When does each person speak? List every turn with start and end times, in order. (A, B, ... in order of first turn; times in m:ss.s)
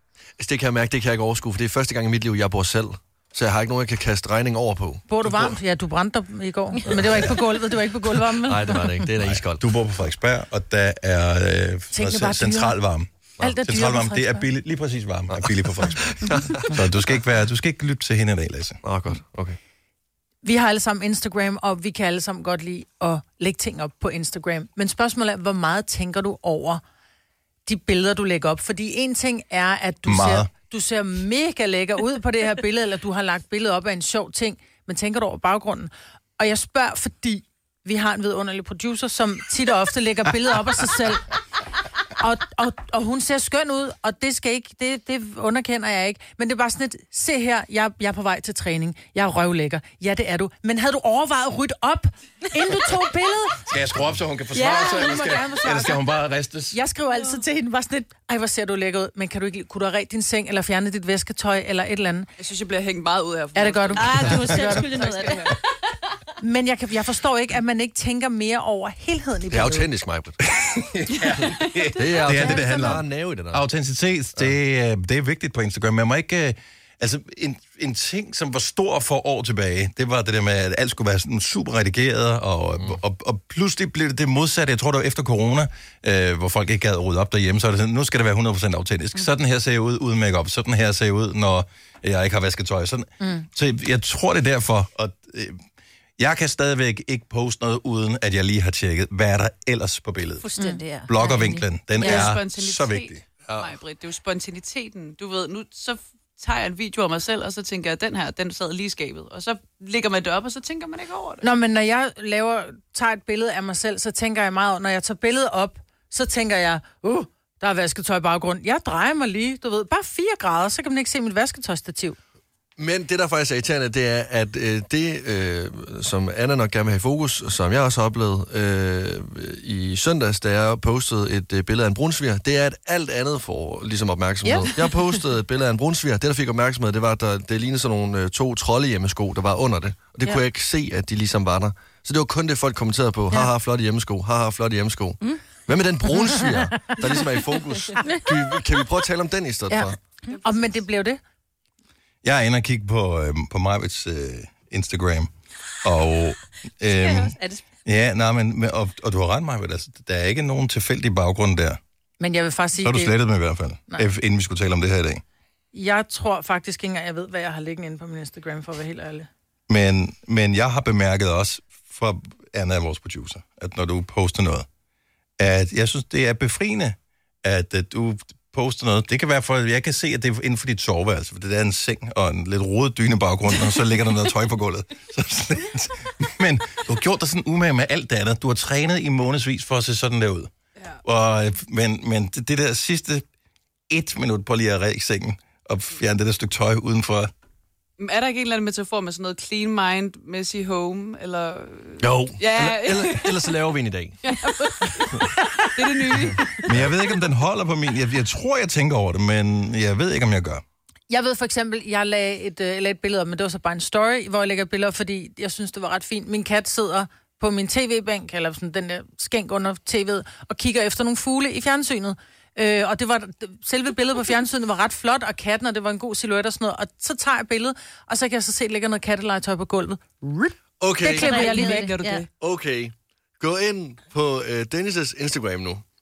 0:00.4-0:05.0 A
0:05.1-0:08.9 B
0:05.2-0:05.5 C
0:06.9-0:07.3 A
0:07.0-0:07.3 C
0:08.4-0:09.6 A
0:09.2-0:18.8 C
0:11.9-0:12.8 B
0:13.4-0:14.5 B
0:15.3-0:16.8 A
0:18.8-0:19.6 A
0:20.4-0:26.8 B
0:27.6-0:41.3 B
0:30.0-0:30.5 C
0:42.2-0:53.6 B
0:53.7-0:56.8 C
0:54.5-0:56.0 B
0:56.7-1:02.3 B
1:02.4-1:05.6 D
1:03.5-1:04.9 B
1:04.0-1:05.5 E
1:06.4-1:09.9 B
1:09.5-1:10.4 A
1:10.5-1:35.6 C
1:11.4-1:12.4 D
1:12.0-1:13.7 A
1:33.2-1:33.5 B
1:36.2-1:40.5 C
1:40.4-1:42.3 E
1:41.0-1:43.2 C
1:42.0-1:51.5 D
1:43.5-1:43.7 A
1:51.4-2:02.2 B
2:02.8-2:30.0 A
2:30.4-2:31.2 B
2:32.2-2:35.3 C
2:35.8-2:41.8 C
2:36.9-2:37.6 E
2:42.2-2:43.1 B
2:42.8-2:45.2 C
2:45.7-2:49.3 B
2:49.7-2:54.7 C
2:55.4-3:10.5 C
3:11.0-3:13.2 C
3:13.9-3:17.3 C
3:18.0-3:23.5 D
3:22.0-3:24.2 A
3:24.2-3:26.6 D
3:26.3-3:26.9 A
3:26.6-3:30.6 C
3:31.1-3:52.0 B
3:50.8-3:51.6 A
3:51.0-3:52.2 E
3:51.2-3:52.3 D
3:52.3-3:55.8 A